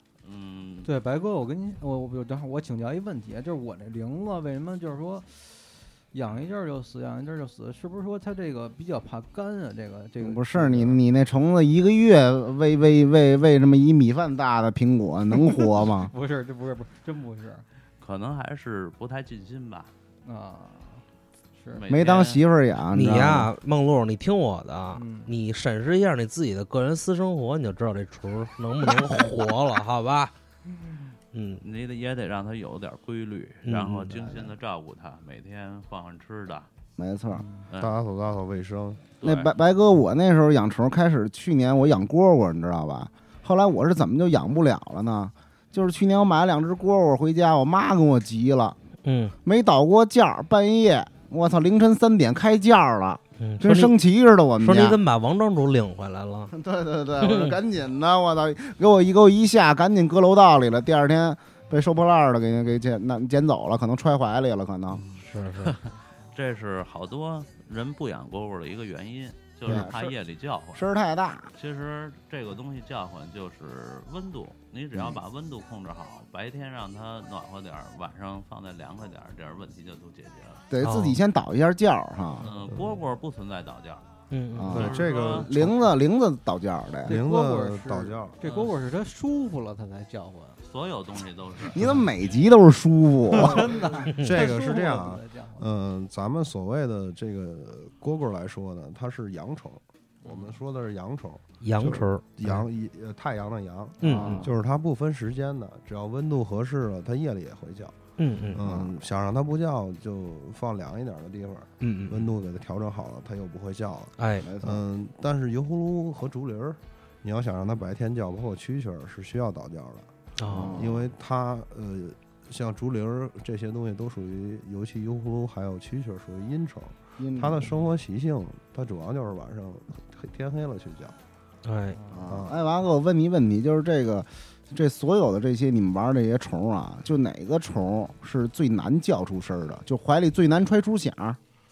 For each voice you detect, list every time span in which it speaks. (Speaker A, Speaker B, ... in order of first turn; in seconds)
Speaker A: 0.2-0.9, 18.0-19.9, 21.7-22.4, 31.6-36.7, 37.7-38.0, 39.2-39.5, 65.6-70.9, 71.5-80.6, 82.4-84.1, 84.7-85.7, 88.4-88.8, 90.6-91.8
Speaker B: 0.8-11.0, 15.9-17.7, 20.2-21.9, 24.9-25.4, 37.4-37.7, 87.0-90.6, 93.4-95.7, 100.2-100.6, 131.9-132.3
Speaker C: 10.2-16.1, 21.9-23.5, 37.0-37.5, 39.2-48.8, 49.5-55.0, 56.5-65.1, 69.7-70.2, 70.8-71.5, 80.7-82.5, 84.5-87.1, 91.8-93.8, 104.0-104.5, 108.6-109.0, 114.4-114.8, 120.4-121.0, 127.2-127.7, 132.1-141.4
Speaker D: 22.9-30.3, 31.3-31.6, 33.6-34.2, 49.0-49.4, 53.4-53.9, 54.6-56.5, 57.2-57.6, 65.1-65.7, 80.8-81.2, 84.3-84.8, 94.1-94.5, 101.6-102.6, 104.0-104.5, 108.2-108.6, 111.8-112.3, 114.2-114.5, 120.4-120.8, 131.6-132.0
Speaker E: 37.8-39.1, 84.7-85.7, 87.1-88.4, 93.3-108.0, 108.5-120.1, 120.7-131.2, 132.3-132.6